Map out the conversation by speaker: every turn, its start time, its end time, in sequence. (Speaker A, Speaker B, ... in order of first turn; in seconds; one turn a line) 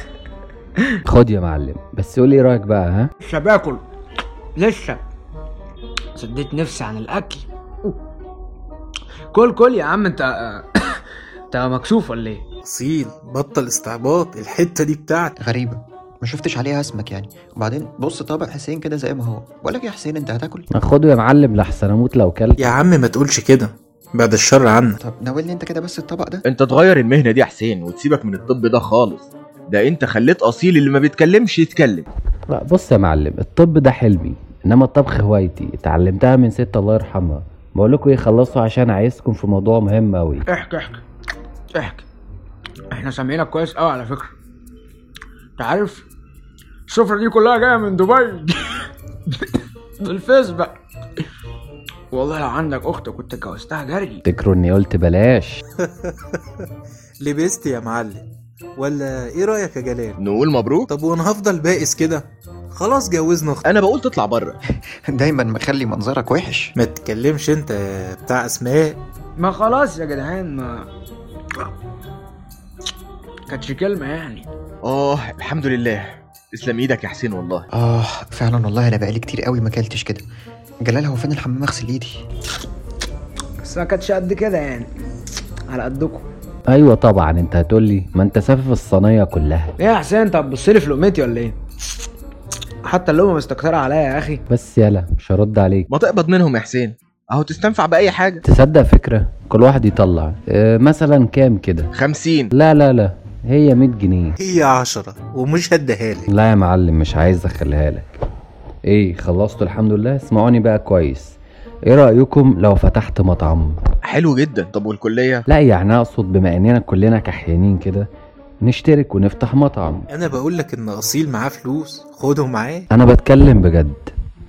Speaker A: 1.1-3.1
Speaker B: 3.2-3.8
Speaker B: 4.6-5.0
Speaker B: 6.2-8.0
Speaker B: 9.3-12.4
Speaker C: 12.7-15.3
Speaker D: 15.4-20.7
Speaker A: 20.8-22.7
Speaker C: 22.6-25.0
Speaker D: 25.0-26.4
Speaker E: 26.4-32.1
Speaker A: 32.5-40.5
Speaker B: 40.5-41.0
Speaker B: 41.7-42.0
Speaker B: 42.9-44.4
Speaker B: 45.6-46.0
Speaker B: 46.9-50.8
Speaker B: 52.1-54.2
Speaker A: 54.3-55.6
Speaker C: 55.8-56.7
Speaker C: 57.2-58.3
Speaker C: 58.8-60.2
Speaker E: 60.2-60.9
Speaker C: 60.9-63.6
Speaker E: 63.6-64.6
Speaker D: 65.1-66.7
Speaker C: 66.8-69.0
Speaker B: 69.4-70.9
Speaker B: 73.5-74.5
Speaker E: 74.8-77.7
Speaker D: 77.7-80.2
Speaker D: 80.8-82.2
Speaker B: 83.6-84.9
Speaker B: 85.7-86.3
Speaker A: 86.7-89.8
Speaker B: 89.8-91.6
Speaker B: 92.8-94.4
Speaker A: 94.5-95.9
Speaker E: 95.9-98.4
Speaker A: 98.4-101.9
Speaker E: 101.9-102.5
Speaker A: 102.5-104.4
Speaker C: 104.4-106.3
Speaker A: 106.3-108.1
Speaker A: 108.9-113.8
Speaker E: 114.0-115.5
Speaker A: 115.5-118.1
Speaker A: 118.6-120.1
Speaker C: 120.1-122.9
Speaker A: 122.9-124.1